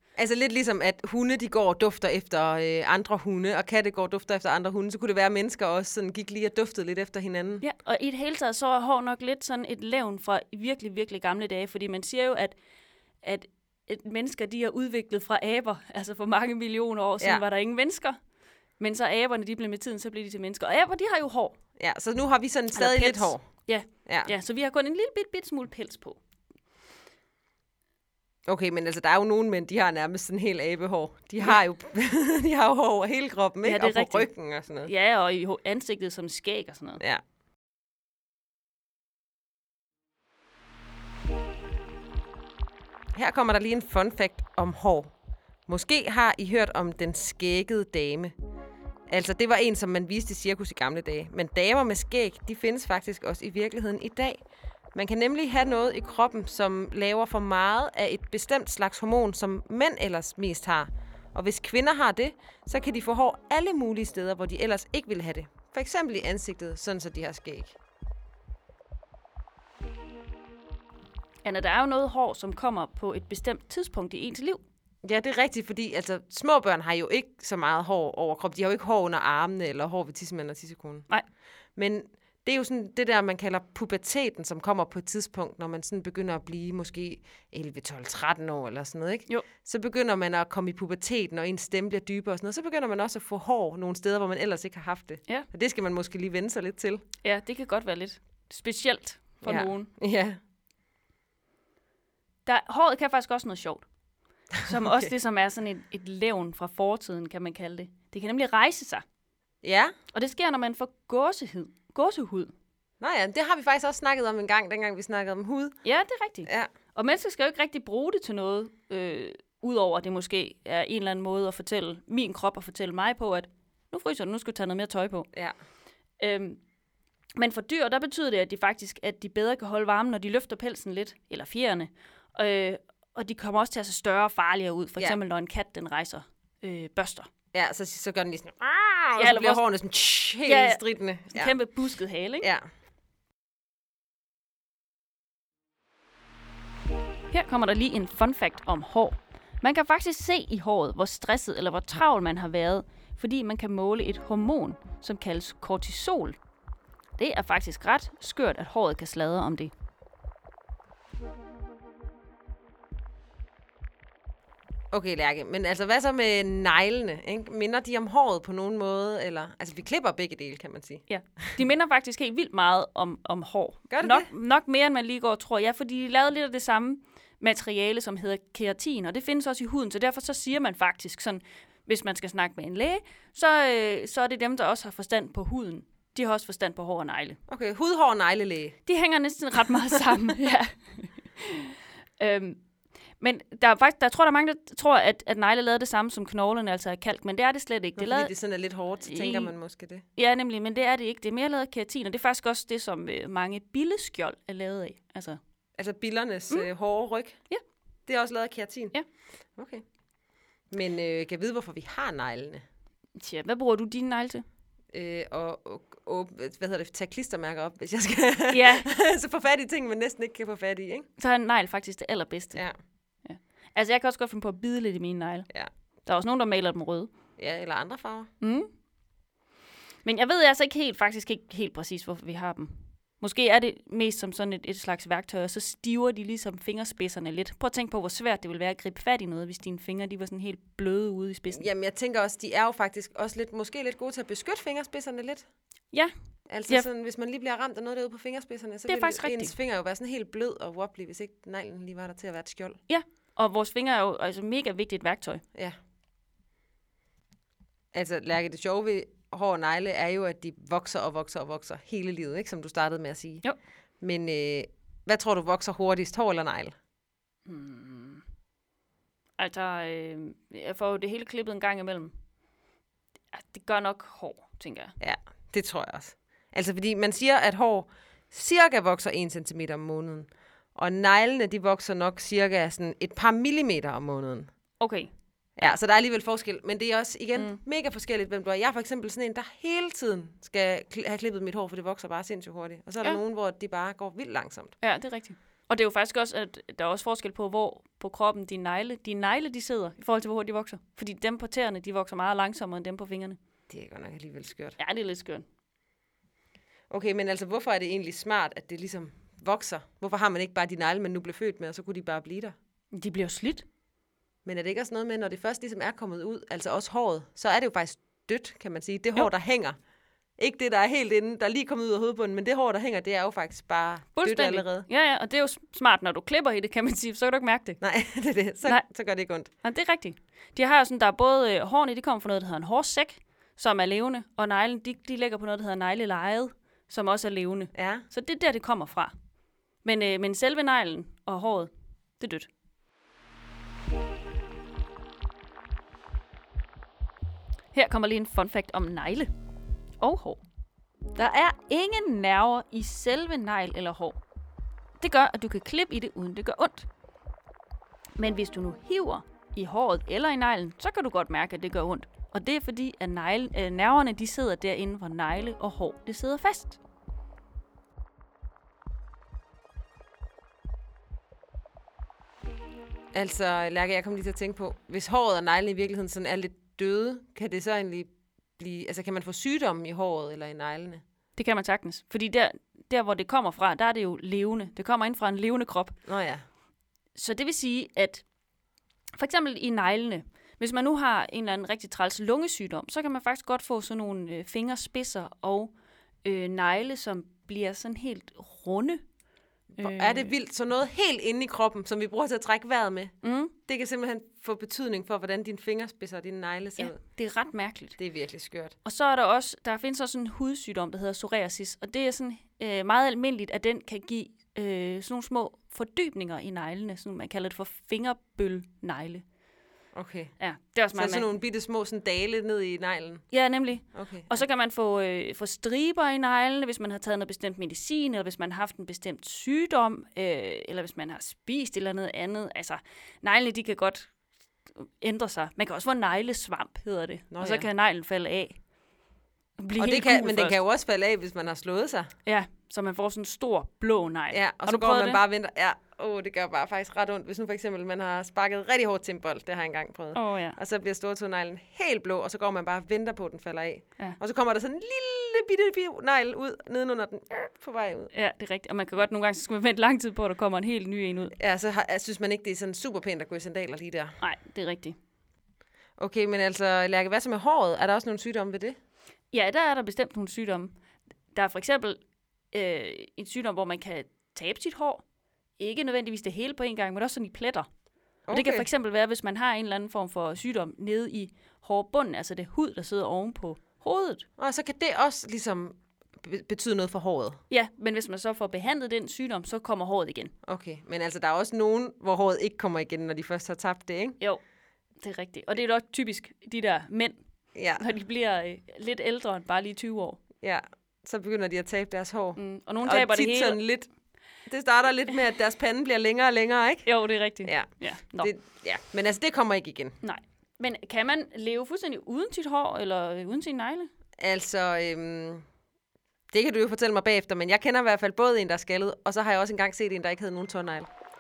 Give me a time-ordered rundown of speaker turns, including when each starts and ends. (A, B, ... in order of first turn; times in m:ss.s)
0:00.2-0:07.6 A
0:07.6-0:12.6 B
0:13.2-0:18.2 B
0:18.8-0:21.6 B
0:21.8-0:24.3 A
0:22.7-0:26.2 B
0:28.5-0:34.9 A
0:33.6-0:34.3 B
0:34.8-0:37.0 B
0:43.1-0:45.1 A
0:45.7-0:48.3 A
0:49.1-0:54.4 A
0:54.9-1:07.8 A
1:11.4-1:14.6 B
1:15.0-1:21.1 A
1:21.8-1:37.0 A
1:37.2-1:39.9 B
1:39.4-1:40.4 A
1:42.4-1:43.8 B
1:44.6-1:49.0 B
1:49.6-1:49.9 A
1:50.1-1:52.5 B
1:53.0-1:55.8 A
1:55.8-2:05.3 B
2:06.2-2:06.6 B
2:07.4-2:17.3 B
2:17.5-2:21.6 A
2:19.2-2:19.6 B
2:20.4-2:22.5 B
2:27.3-2:36.4 B
2:37.2-2:39.7 B
2:44.9-2:51.0 A
2:51.1-3:07.4 B
2:53.9-2:54.3 A
3:07.5-3:08.8 A
3:08.8-3:12.6 B
3:13.2-3:18.3 B
3:18.0-3:20.0 A
3:19.0-3:19.5 B
3:20.2-3:25.4 B
3:25.8-3:27.4 A
3:28.1-3:29.0 A
3:29.6-3:29.8 A
3:30.7-3:32.6 A
3:33.2-3:34.4 B
3:34.9-3:41.1 A
3:38.5-3:38.9 B
3:41.2-3:42.6 B
3:43.2-3:45.5 B
3:46.0-3:47.1 B
3:47.4-3:48.3 A
3:48.4-3:48.7 B
3:50.0-4:01.7 B
4:01.5-4:05.4 A
4:06.5-4:12.8 A
4:08.8-4:09.5 B
4:12.9-4:15.4 B
4:17.9-4:23.4 A
4:24.0-4:26.7 A
4:27.4-4:28.2 B
4:29.4-4:32.1 B
4:33.3-4:34.9 B
4:35.0-4:44.5 A
4:44.8-4:45.7 B
4:45.6-4:54.7 A
4:54.8-5:03.4 B
5:03.7-5:04.8 A
5:04.8-5:05.4 B
5:06.9-5:12.5 A
5:12.9-5:13.6 B
5:14.4-5:19.8 A
5:20.4-5:24.9 A
5:24.1-5:27.8 B
5:27.8-5:29.5 A
5:29.6-5:39.1 B
5:37.7-5:38.0 A
5:39.8-5:42.5 B
5:47.7-5:49.3 B
5:50.0-5:50.4 B
5:51.1-5:54.2 B
5:55.0-5:56.9 B
5:58.2-6:06.8 B
6:13.1-6:21.0 A
6:21.4-6:26.0 B
6:26.0-6:26.4 A
6:27.1-6:28.2 B
6:29.2-6:35.7 B
6:36.2-6:39.0 B
6:39.8-6:40.3 B
6:39.8-6:43.1 A
6:43.2-6:43.5 B
6:43.6-6:47.0 A
6:46.8-6:48.0 B
6:48.0-6:48.8 A
6:48.8-6:59.2 B
6:59.9-7:00.3 A
7:00.4-7:01.3 B
7:00.9-7:03.3 A
7:03.3-7:14.1 B
7:03.9-7:04.4 A
7:14.8-7:18.6 B
7:17.3-7:17.7 A
7:19.6-7:20.6 B
7:19.7-7:22.1 A
7:22.2-7:25.2 B
7:24.3-7:38.1 A
7:30.1-7:30.6 B
7:38.1-7:41.4 B
7:41.4-7:44.2 A
7:44.2-7:45.0 B
7:46.0-7:48.8 A
7:49.3-7:50.7 B
7:51.3-7:52.0 B
7:52.5-7:55.0 B
7:55.6-7:57.7 B
7:58.3-7:58.7 A
7:58.3-8:04.2 B
8:04.4-8:07.4 A
8:07.5-8:10.3 B
8:10.4-8:14.2 A
8:15.0-8:17.2 B
8:17.5-8:17.8 A
8:17.8-8:20.2 B
8:20.4-8:23.9 A
8:22.4-8:23.6 B
8:24.5-8:26.9 A
8:26.8-8:28.3 B
8:27.4-8:30.0 A
8:30.0-8:33.9 B
8:34.2-8:35.4 A
8:36.3-8:40.9 A